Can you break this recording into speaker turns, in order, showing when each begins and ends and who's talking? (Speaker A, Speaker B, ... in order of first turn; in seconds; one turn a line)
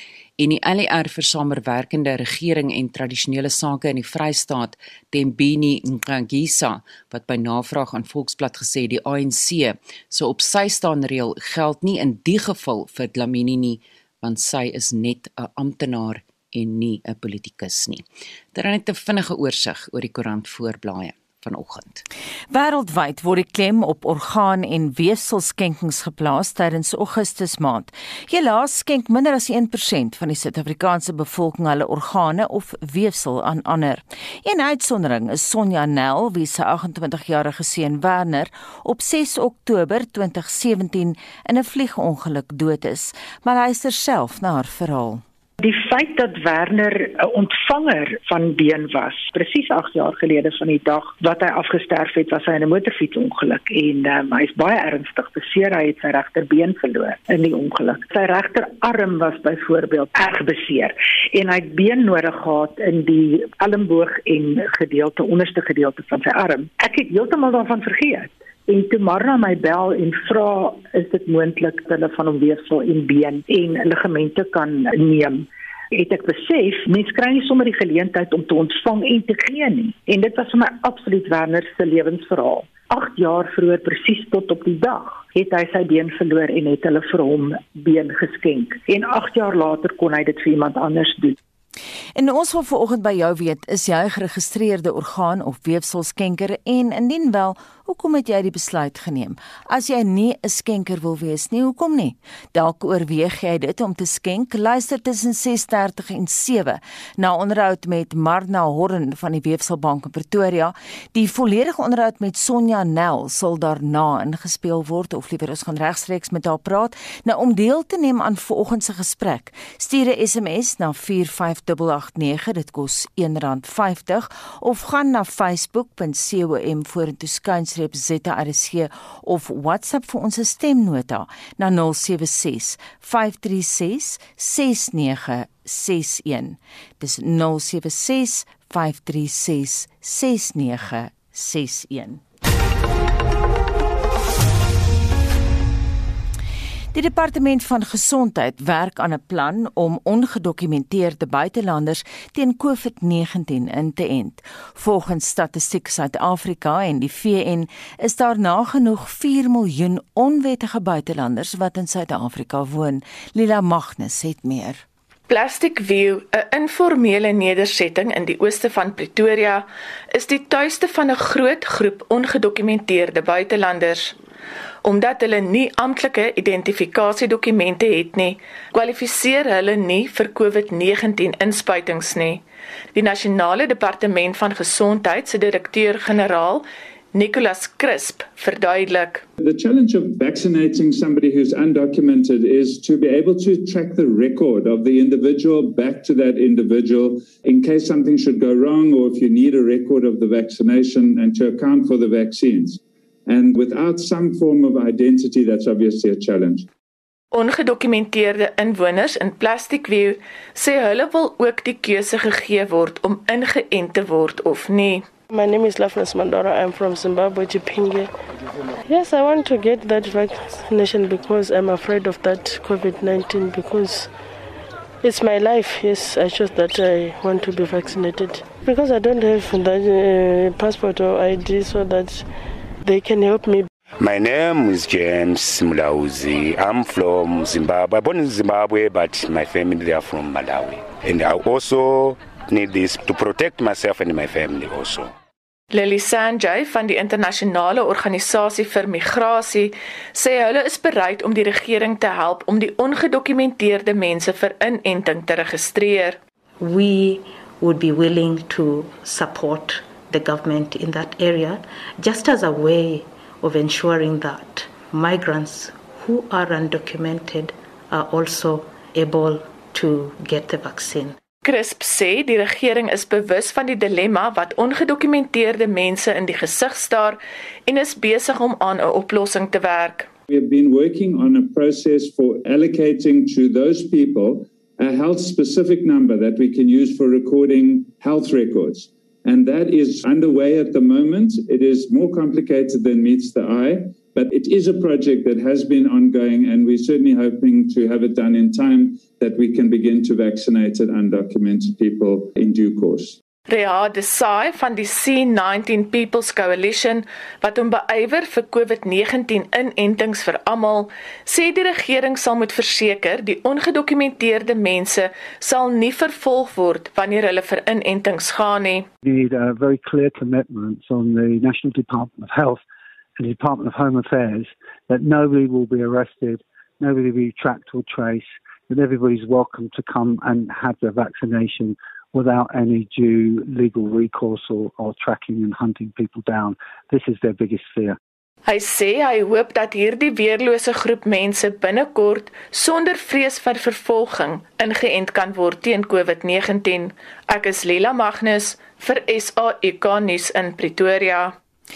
Speaker A: 0.4-22.0
Speaker B: 22.5-45.2
Speaker C: 45.6-91.4
Speaker B: 92.2-142.2
Speaker B: 146.9-164.8
Speaker D: 165.3-174.1
Speaker D: 174.8-182.4
Speaker D: 182.9-189.2
Speaker E: 189.4-206.7
Speaker D: 207.3-215.1
Speaker F: 215.3-218.1
Speaker F: 218.8-224.1
Speaker F: 225.0-232.3
Speaker F: 232.8-233.7
Speaker G: 234.0-245.1
Speaker D: 245.7-256.2
Speaker H: 256.6-271.2
Speaker D: 271.4-280.1
Speaker E: 280.3-303.2
Speaker D: 303.5-318.9
Speaker I: 319.0-322.6
Speaker I: 323.2-338.0
Speaker D: 338.4-351.4